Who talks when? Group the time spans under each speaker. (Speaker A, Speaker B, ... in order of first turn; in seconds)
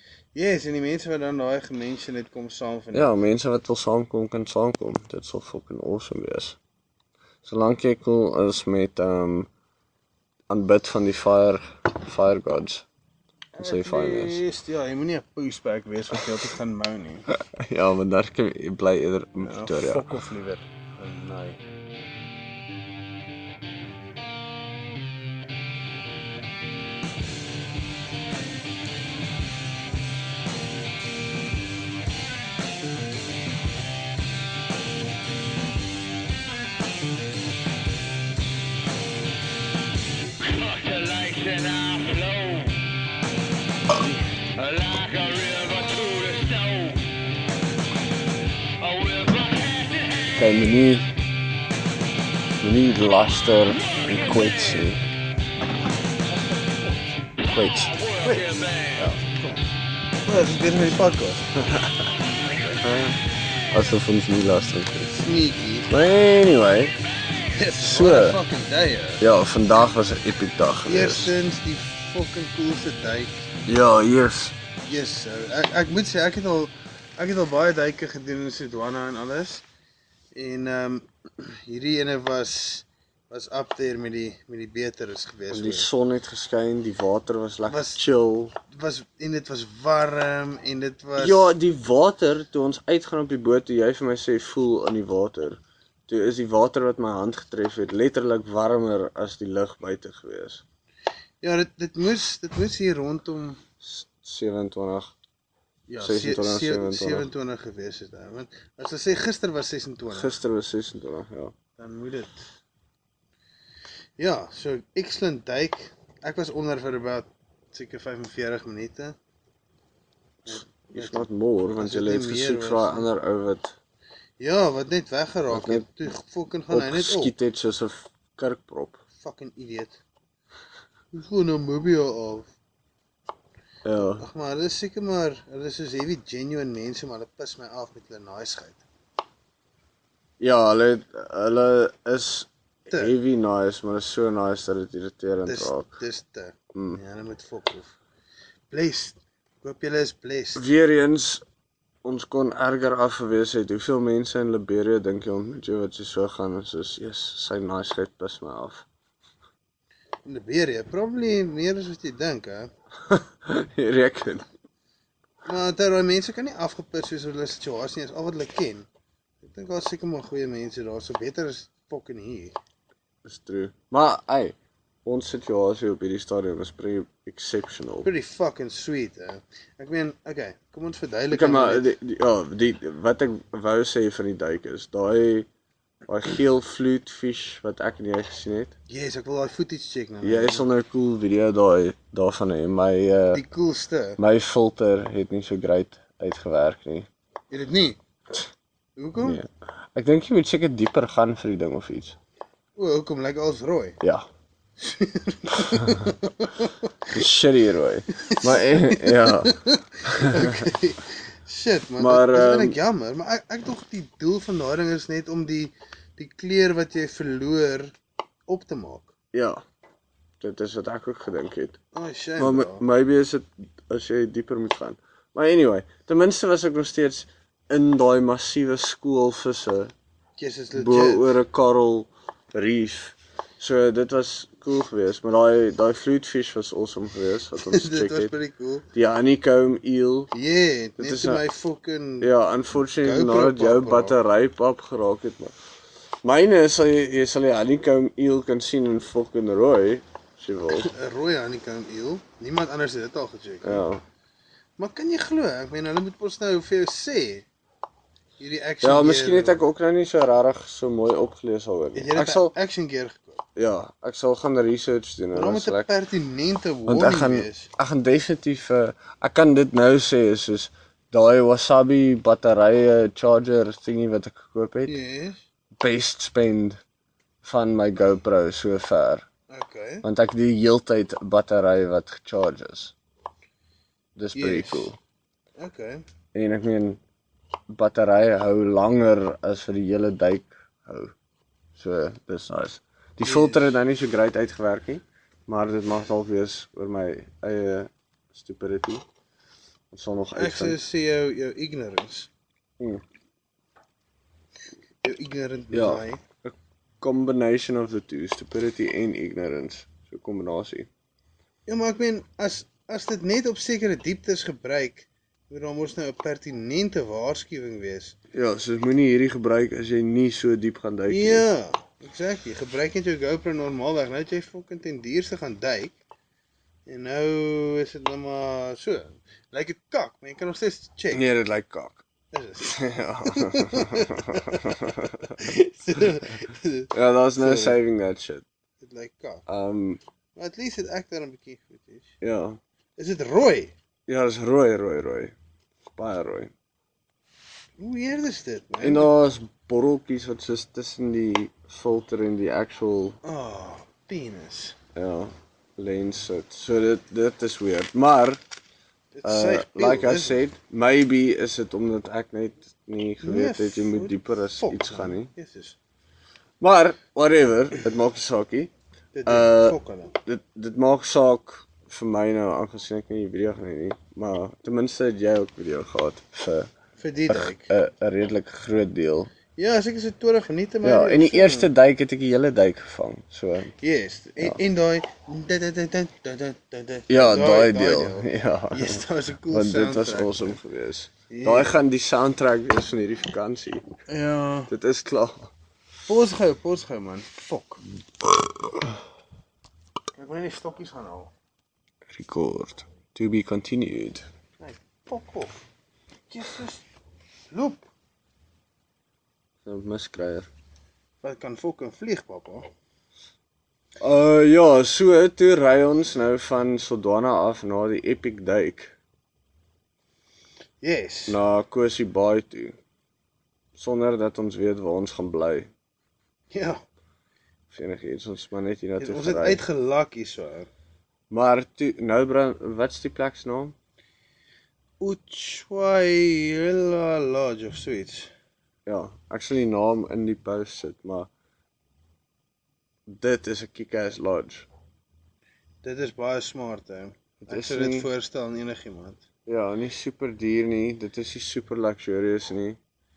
Speaker A: 0.3-3.2, 13.6-17.3, 19.4-21.6, 58.1-59.6, 60.2-61.5, 62.5-62.8, 65.0-65.9, 67.4-69.2, 70.8-73.3, 74.8-79.6, 80.3-85.9, 87.7-88.0, 88.7-91.5, 101.4-103.6, 105.9-110.3, 111.8-112.5, 114.2-119.1, 120.5-123.0, 124.4-127.3, 129.2-130.0, 131.1-132.5, 133.9-138.8, 142.9-143.1, 145.4-147.9, 148.7-150.6, 160.2-162.7, 165.4-168.9, 169.4-172.5, 178.0-181.9, 188.9-190.7, 193.3-194.2, 197.5-198.0, 199.0-199.4, 202.8-204.0, 204.8-207.2, 208.2-217.9, 218.5-219.1, 221.9-222.8, 230.4-231.3, 237.6-238.9, 240.3-244.2, 250.7-253.8, 254.8-257.4, 258.4-259.6, 261.9-263.4, 265.3-267.7, 274.9-275.4, 279.5-280.0, 284.3-284.9, 285.6-286.0, 293.2-293.8, 300.3-302.3, 305.0-306.2, 311.7-318.1, 321.1-326.0, 326.9-331.2, 332.3-337.8, 338.8-339.4, 340.4-342.1, 343.0-343.7, 347.8-349.1, 353.2-354.8, 359.1-360.4, 363.2-365.8, 369.1-370.1, 377.0-377.8, 379.5-381.7, 383.8-390.6, 391.3-391.8, 394.1-394.7, 396.1-397.8, 400.1-401.3, 404.6-405.6, 406.3-406.8, 407.5-407.9, 411.2-412.7, 420.8-421.4, 426.5-426.8, 429.0-430.7, 435.0-438.3, 445.8-449.2
Speaker B: 2.9-6.6, 7.4-9.5, 10.5-12.8, 13.6-14.4, 17.5-20.1, 50.3-51.1, 52.6-55.0, 57.4-58.1, 58.9-59.2, 62.8-63.2, 63.7-65.0, 65.9-67.0, 67.8-68.4, 69.2-71.3, 73.7-74.6, 85.5-88.5, 91.2-100.6, 103.8-105.1, 106.0-107.3, 110.1-111.5, 120.5-123.8, 125.5-125.9, 126.7-129.0, 133.8-134.2, 140.4-145.9, 146.7-147.0, 150.5-151.4, 152.0-158.8, 163.1-164.4, 173.2-178.1, 181.3-185.5, 186.1-188.7, 190.2-193.4, 194.2-197.1, 199.2-202.2, 204.0-204.2, 207.1-210.5, 212.0-212.8, 219.3-219.6, 220.4-221.8, 222.4-229.9, 230.7-238.3, 238.9-240.3, 241.0-241.4, 242.2-245.5, 246.2-250.9, 253.6-254.0, 258.8-262.5, 263.6-265.9, 266.9-275.0, 275.8-276.8, 277.4-279.2, 280.0-282.9, 284.1-285.0, 286.3-287.0, 287.7-291.1, 291.7-299.0, 299.9-300.8, 305.7-310.9, 318.3-321.4, 331.1-332.0, 332.6-335.1, 336.9-338.4, 339.5-340.0, 342.2-342.6, 344.1-345.3, 345.9-346.5, 348.8-353.2, 354.9-358.4, 359.2-365.3, 366.6-368.7, 369.2-376.7, 377.3-379.3, 380.8-383.7, 387.1-393.8, 394.7-395.5, 402.1-404.2, 409.6-410.5, 414.0-418.9, 421.3-422.8, 423.7-425.7, 427.7-429.6, 431.3-433.7, 438.9-441.3, 443.1-444.7, 447.5-448.1, 449.5-452.8
Speaker C: 40.6-42.7, 44.6-47.0, 48.8-50.2